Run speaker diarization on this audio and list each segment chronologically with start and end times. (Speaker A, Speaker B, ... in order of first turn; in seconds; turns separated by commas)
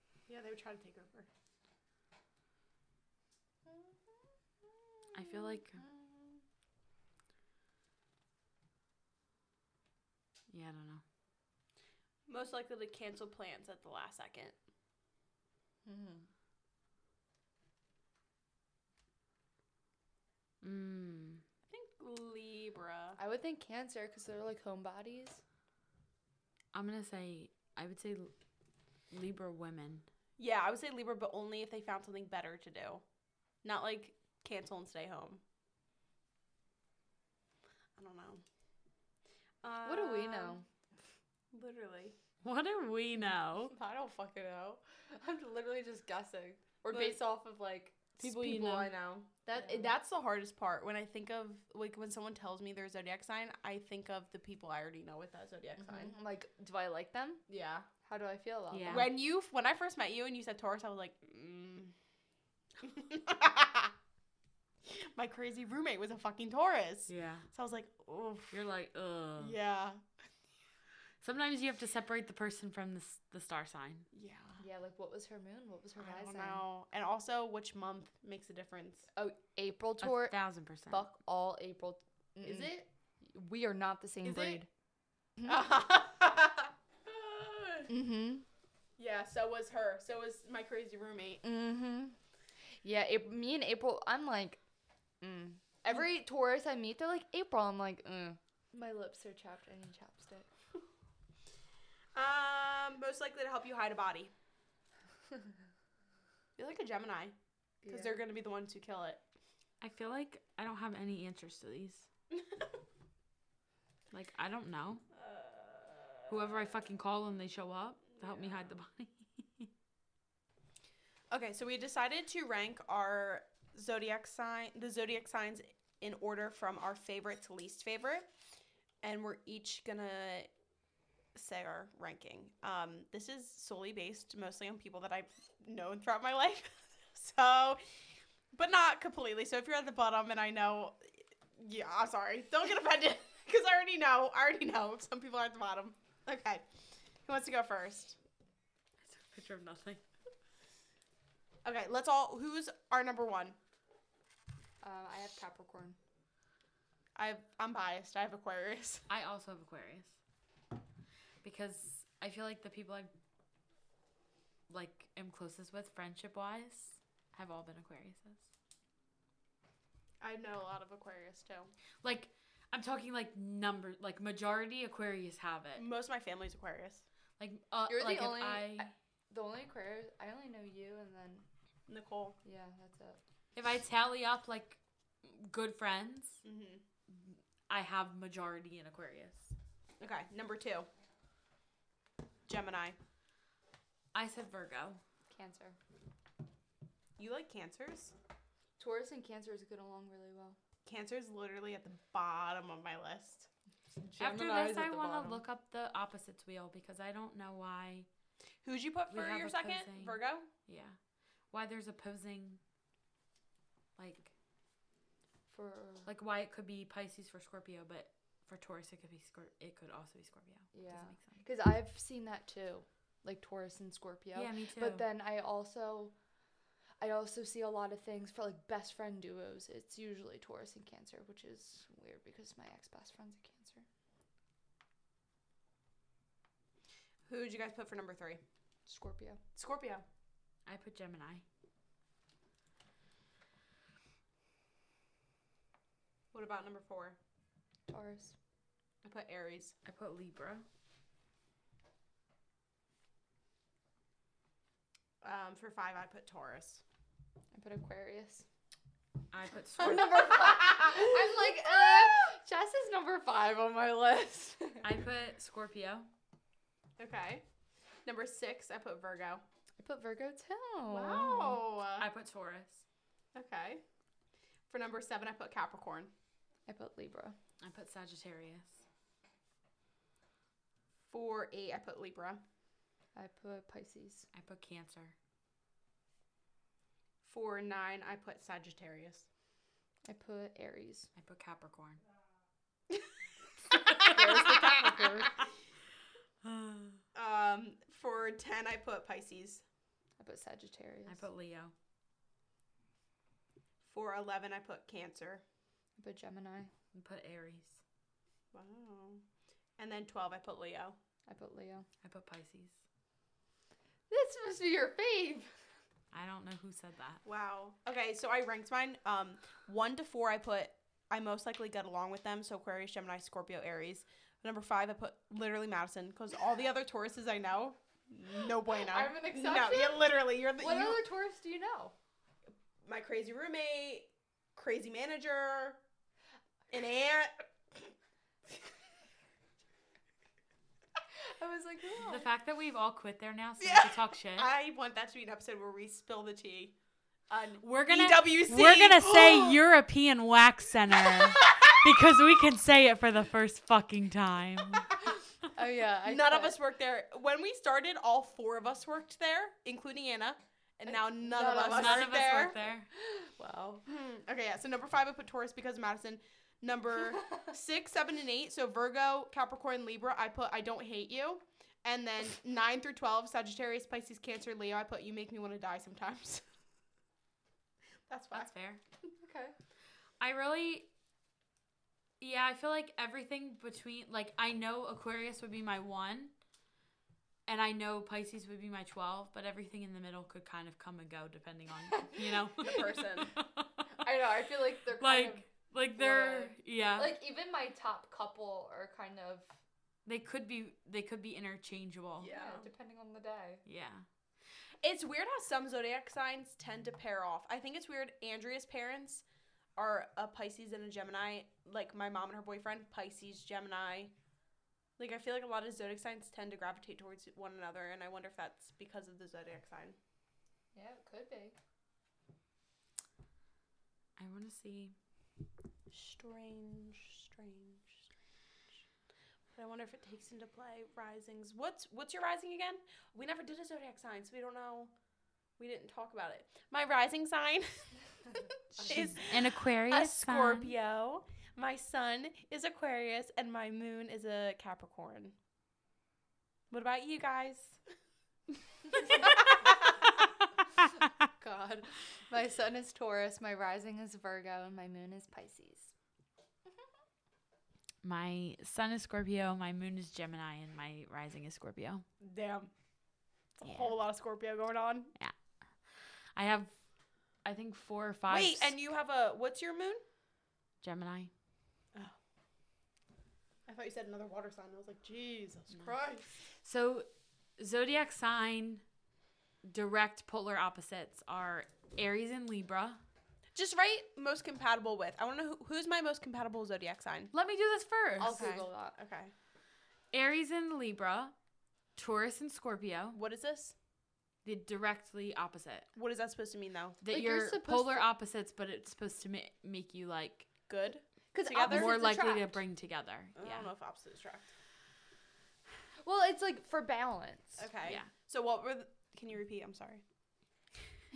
Speaker A: 0.3-1.3, Speaker B: 5.0-6.4, Speaker C: 5.1-5.8, Speaker C: 10.5-11.0, Speaker A: 12.3-14.6, Speaker B: 15.8-16.3, Speaker C: 20.6-21.4, Speaker A: 21.7-23.2, Speaker B: 23.2-25.4, Speaker C: 26.7-28.3, Speaker C: 29.1-30.0, Speaker A: 30.4-33.0, Speaker A: 33.6-35.4, Speaker A: 38.0-38.4, Speaker A: 39.6-40.6, Speaker B: 39.8-40.6, Speaker A: 41.5-42.1, Speaker C: 42.4-43.7, Speaker A: 43.7-44.8, Speaker B: 45.1-47.9, Speaker A: 46.9-56.1, Speaker C: 48.2-48.9, Speaker B: 49.5-49.9, Speaker B: 55.8-57.4, Speaker A: 57.5-57.9, Speaker B: 58.0-59.1, Speaker C: 58.7-59.1, Speaker A: 58.9-61.9, Speaker A: 62.8-63.9, Speaker A: 64.8-68.6, Speaker C: 67.1-67.5, Speaker C: 68.5-69.6, Speaker A: 69.4-70.0, Speaker C: 71.2-74.0, Speaker A: 74.1-74.6, Speaker B: 74.6-76.6, Speaker A: 76.0-79.1, Speaker B: 79.2-80.3, Speaker C: 80.0-81.0, Speaker B: 80.9-84.7, Speaker A: 82.4-82.9, Speaker A: 84.2-84.6, Speaker A: 85.4-87.9, Speaker B: 87.9-88.5, Speaker A: 89.0-91.4, Speaker B: 91.4-92.2, Speaker B: 92.8-94.6, Speaker B: 95.2-100.5, Speaker A: 102.1-104.3, Speaker A: 106.5-107.3, Speaker B: 107.8-108.2, Speaker A: 107.9-109.2, Speaker C: 109.8-112.1, Speaker A: 112.3-112.7, Speaker C: 114.1-115.0, Speaker A: 115.1-116.4, Speaker C: 116.3-119.7, Speaker A: 118.2-118.7, Speaker A: 121.3-128.3, Speaker A: 129.0-130.5, Speaker A: 131.3-137.8, Speaker A: 138.5-146.6, Speaker A: 147.2-148.2, Speaker C: 149.0-150.0, Speaker A: 151.6-153.6, Speaker B: 154.8-156.0, Speaker A: 157.1-159.0, Speaker C: 159.1-160.2, Speaker C: 161.4-163.1, Speaker C: 164.7-168.4, Speaker A: 170.2-171.7, Speaker C: 172.0-175.9, Speaker A: 175.8-177.0, Speaker C: 177.4-178.9, Speaker B: 177.9-181.4, Speaker A: 181.9-182.3, Speaker B: 182.4-183.2, Speaker C: 183.5-186.4, Speaker A: 186.4-186.8, Speaker C: 187.7-189.5, Speaker A: 190.0-190.9, Speaker A: 192.4-193.0, Speaker C: 194.1-195.0, Speaker B: 195.3-195.8, Speaker A: 197.2-198.1, Speaker B: 198.8-200.6, Speaker A: 200.8-203.5, Speaker B: 203.9-205.4, Speaker C: 204.2-208.1, Speaker A: 208.6-210.5, Speaker C: 209.1-210.9, Speaker C: 211.5-212.6, Speaker C: 214.0-214.3, Speaker B: 215.5-216.1, Speaker C: 216.1-221.4, Speaker B: 220.7-226.1, Speaker C: 224.3-225.0, Speaker B: 227.0-233.8, Speaker A: 237.3-238.4, Speaker B: 238.8-239.4, Speaker A: 239.5-240.0, Speaker C: 240.7-241.4, Speaker A: 246.3-247.2, Speaker B: 247.9-248.3, Speaker A: 249.0-249.8, Speaker C: 249.8-250.6, Speaker A: 255.2-256.8, Speaker B: 257.5-258.4, Speaker C: 259.3-260.4, Speaker A: 259.8-262.1, Speaker B: 259.8-264.9, Speaker C: 264.8-266.1, Speaker A: 267.0-267.4, Speaker A: 268.0-269.4, Speaker B: 269.8-271.6, Speaker A: 270.9-272.1, Speaker C: 272.0-272.8, Speaker A: 273.3-273.8, Speaker A: 274.7-276.1, Speaker B: 276.7-277.4, Speaker C: 277.6-278.8, Speaker A: 281.1-282.4, Speaker B: 283.1-284.3, Speaker C: 284.3-285.1, Speaker A: 287.2-289.2, Speaker B: 290.1-291.1, Speaker C: 291.2-292.0, Speaker A: 293.7-295.2, Speaker B: 294.0-295.3, Speaker C: 296.4-297.0, Speaker A: 297.1-299.6, Speaker B: 300.2-301.2, Speaker C: 301.1-301.7, Speaker A: 303.8-305.4, Speaker B: 306.0-306.7, Speaker C: 306.9-307.8, Speaker A: 308.5-309.2, Speaker A: 309.8-311.0, Speaker B: 311.3-311.9, Speaker C: 312.0-312.8, Speaker B: 314.1-315.5, Speaker C: 316.1-317.2, Speaker A: 317.2-331.0, Speaker B: 328.7-331.9, Speaker A: 332.8-335.8, Speaker A: 336.7-337.9, Speaker B: 341.3-342.3, Speaker C: 342.0-344.5, Speaker A: 343.6-346.7, Speaker A: 347.3-349.6, Speaker C: 347.6-355.0, Speaker A: 351.0-351.9, Speaker B: 355.5-356.6, Speaker A: 356.0-362.6, Speaker B: 360.9-362.1, Speaker C: 361.4-362.9, Speaker A: 363.4-376.4, Speaker A: 378.1-378.5, Speaker C: 378.3-378.8, Speaker B: 379.2-379.5, Speaker C: 380.2-380.9, Speaker C: 382.2-386.3, Speaker C: 387.5-394.0, Speaker A: 392.6-393.3, Speaker B: 394.0-399.6, Speaker C: 395.0-397.1, Speaker C: 400.1-402.3, Speaker A: 402.2-402.7, Speaker B: 402.3-403.6, Speaker C: 403.6-404.0, Speaker A: 404.8-409.2, Speaker A: 409.8-414.1, Speaker A: 415.0-420.0, Speaker B: 420.7-421.6, Speaker C: 424.2-424.9, Speaker A: 425.9-428.1, Speaker A: 429.5-434.9, Speaker A: 435.6-437.9, Speaker A: 438.7-445.3, Speaker B: 438.8-439.2, Speaker C: 438.8-440.7, Speaker A: 446.7-447.8, Speaker A: 448.9-449.9, Speaker B: 451.4-455.9, Speaker C: 458.0-462.0, Speaker A: 462.2-462.7, Speaker A: 463.6-465.1, Speaker C: 463.6-463.9, Speaker C: 466.4-466.7, Speaker C: 467.4-468.8, Speaker A: 468.3-470.0, Speaker C: 470.8-471.3, Speaker A: 473.6-476.4, Speaker C: 476.6-477.1, Speaker C: 477.6-478.8, Speaker C: 479.6-483.0, Speaker A: 483.5-487.3, Speaker C: 487.3-488.4, Speaker B: 488.2-488.9, Speaker A: 488.2-489.3, Speaker C: 490.1-491.3, Speaker C: 491.9-493.2, Speaker A: 493.1-493.7, Speaker C: 494.4-495.9, Speaker A: 495.9-497.0, Speaker C: 497.0-500.5, Speaker B: 497.1-498.1, Speaker A: 500.7-501.9, Speaker B: 501.3-502.6, Speaker C: 501.6-503.7, Speaker A: 503.4-504.5, Speaker B: 506.0-507.7, Speaker A: 507.6-510.0, Speaker C: 507.8-508.1